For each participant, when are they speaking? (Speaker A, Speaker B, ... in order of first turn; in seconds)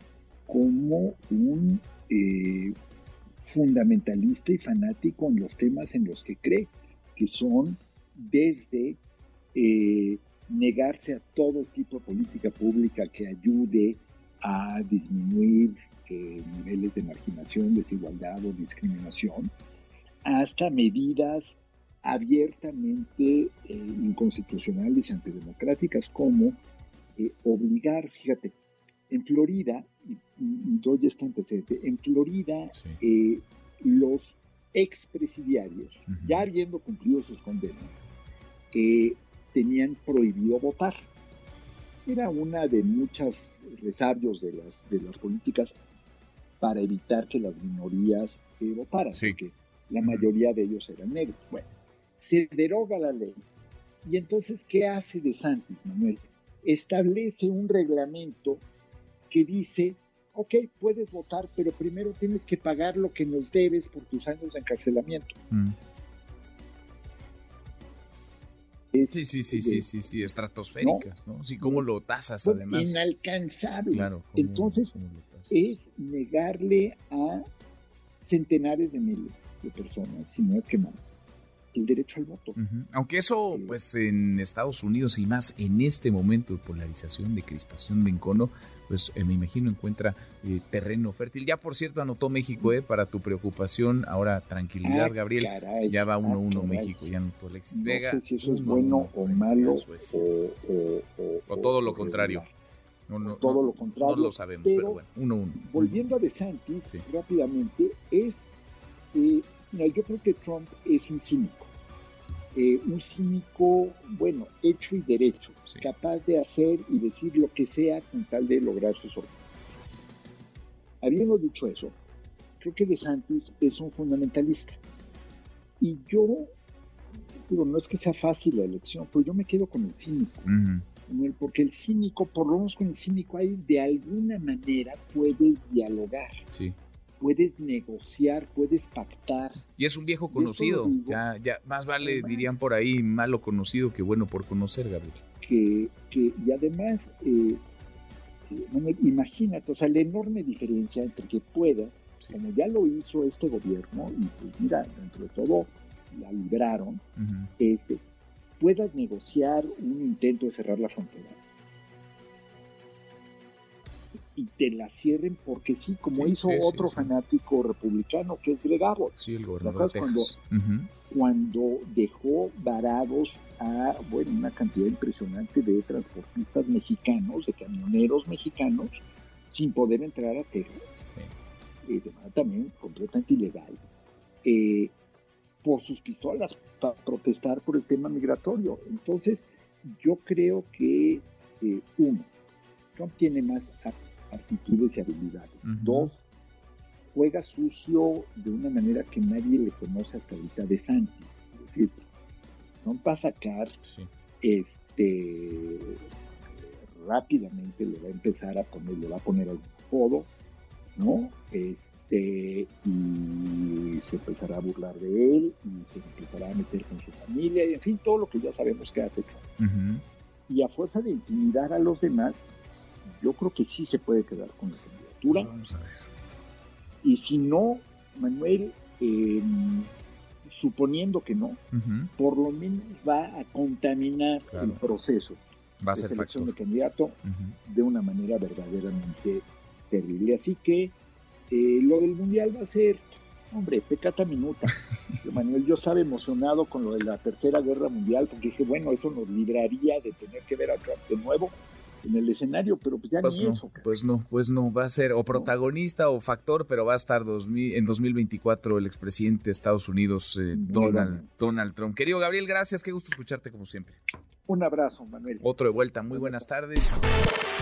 Speaker A: 0.5-2.8, 3.4-9.0, 9.5-19.5, 20.2-26.6, 27.2-28.6, 29.1-38.0, 38.7-41.1, 42.1-45.8, 46.6-53.4, 54.0-58.6, 59.3-65.3, 68.9-69.9, 70.8-71.1, 71.6-71.9, 72.4-74.9, 75.5-77.5, 78.2-81.2, 81.7-82.6, 94.8-97.1, 97.7-102.5, 103.2-105.0, 105.6-108.5, 109.1-111.7, 112.5-119.3, 121.0-122.0, 122.6-124.8, 125.8-126.5, 127.5-130.5, 131.1-136.3, 137.2-139.6, 140.3-141.2, 142.0-142.6, 145.4-147.6, 148.5-157.0, 157.6-158.0, 158.6-161.4, 164.3-170.3, 171.1-180.8, 181.8-183.8, 184.4-184.9, 185.6-192.3, 192.9-196.2, 197.1-202.0, 202.8-203.8, 204.4-206.0, 206.8-210.3, 211.0-219.4, 220.5-222.5, 223.1-225.5, 227.0-229.9, 230.4-231.6, 232.2-235.4, 235.9-240.9, 241.5-253.9, 260.5-261.3, 264.5-265.5, 266.1-266.5
Speaker B: 32.7-33.0, 36.1-36.5, 50.0-50.3, 65.5-65.8, 69.1-73.0, 73.9-75.8, 82.6-100.3, 101.5-102.5, 103.1-106.0, 130.5-130.9, 139.8-145.2, 157.2-157.5, 166.2-167.1, 169.2-170.9, 195.6-196.1, 219.6-220.0, 225.3-226.0, 231.7-232.1, 234.5-234.8, 235.8-236.5, 237.2-237.6, 253.2-264.0, 265.4-267.0